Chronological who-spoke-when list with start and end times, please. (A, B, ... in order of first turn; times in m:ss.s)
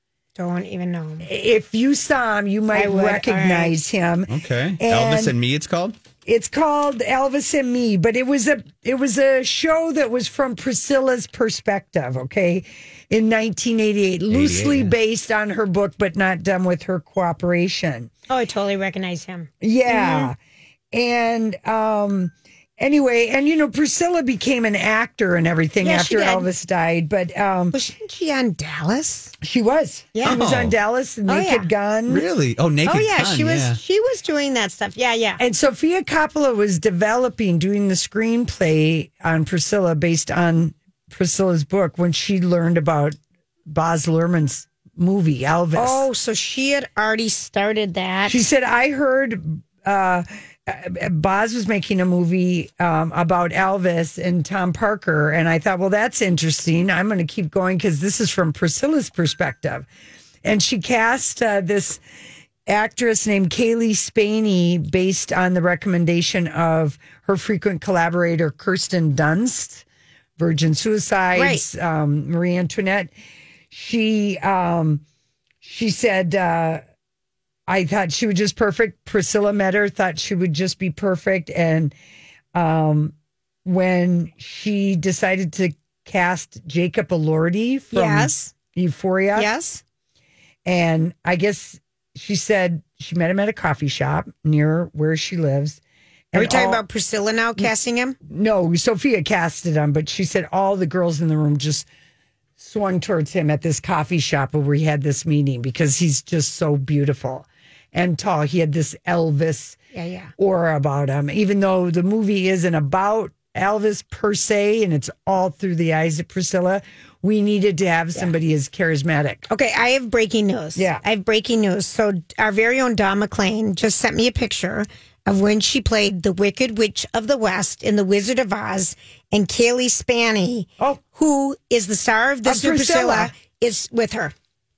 0:00.4-0:01.3 A
0:01.2-0:05.4 B
0:02.7-0:03.8 A
0:04.3-0:06.0 C
0:06.2-0:18.1 B
0:14.3-0:14.9 C
0:18.3-0:20.3 A
0:19.6-0:20.4 B
0:20.9-0:27.8 B
0:25.8-0:26.5 A
0:27.7-0:29.3 A
0:29.4-0:32.3 B
0:30.2-0:30.4 A
0:30.2-0:30.7 C
0:31.3-0:31.7 A
0:32.1-0:33.8 C
0:32.8-0:35.4 A
0:35.4-0:43.2 B
0:43.7-0:46.1 B
0:45.8-0:48.4 A
0:48.3-0:59.9 B
1:00.4-1:02.0 B
1:02.7-1:09.8 B
1:10.4-1:13.1 B
1:11.3-1:11.6 A
1:13.7-1:15.0 B
1:15.6-1:16.8 B
1:17.7-1:21.9 B
1:22.5-1:23.1 B
1:23.6-1:29.5 B
1:27.9-1:28.5 A
1:29.4-1:29.8 A
1:30.6-1:35.8 B
1:36.3-1:36.8 B
1:36.3-1:38.2 A
1:38.3-1:41.9 B
1:42.6-1:49.8 B
1:49.9-1:50.3 A
1:50.4-1:59.5 B
1:59.5-2:14.3 A
2:00.8-2:01.0 B
2:12.4-2:13.3 B